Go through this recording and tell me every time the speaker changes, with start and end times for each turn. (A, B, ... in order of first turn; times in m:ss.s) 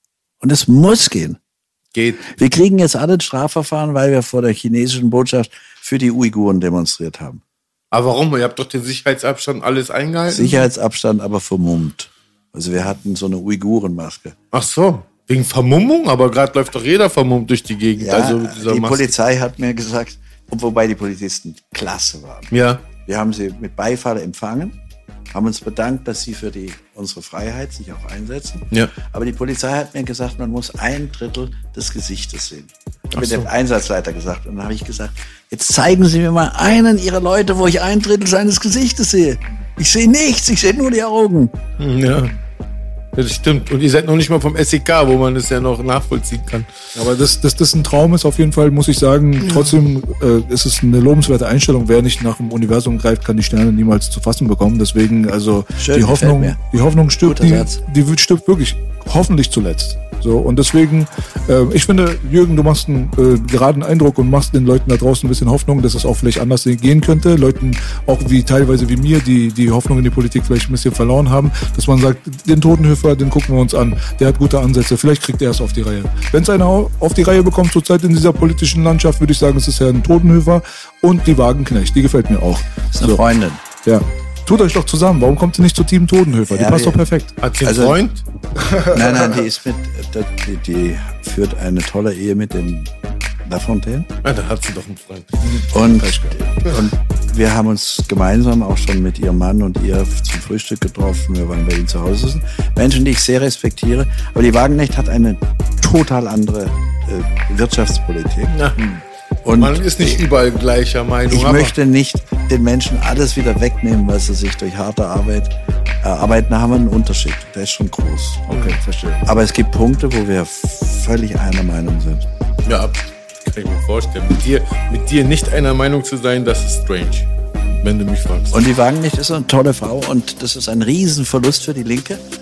0:00.4-0:01.4 A
0:01.9-0:02.3 B
0:02.3-0:07.4 A
0:07.9-0:10.7 B
0:10.3-0:14.4 A
0:14.5-0:19.1 B
0:18.0-0:24.8 A
0:22.5-0:22.9 B
0:25.3-0:41.6 A
0:33.2-0:33.5 B
0:41.8-0:42.4 B
0:43.2-0:46.7 B
0:46.9-1:23.2 C
0:49.5-0:49.7 B
0:55.8-0:56.6 A
0:57.2-0:57.8 A
1:22.9-1:23.6 A
1:23.8-1:27.3 C
1:26.5-1:27.0 A
1:27.4-1:28.2 B
1:27.6-1:28.0 A
1:28.6-1:29.4 C
1:28.9-1:32.9 A
1:33.4-1:34.1 A
1:34.2-1:35.6 B
1:35.4-1:36.4 C
1:35.7-1:48.6 A
1:48.5-1:48.8 B
1:48.8-1:49.0 C
1:49.4-1:50.2 A
1:49.5-1:51.8 B
1:51.3-1:58.6 A
1:58.5-1:59.3 C
1:59.2-2:02.3 A
2:02.7-2:08.7 B
2:08.5-2:12.2 A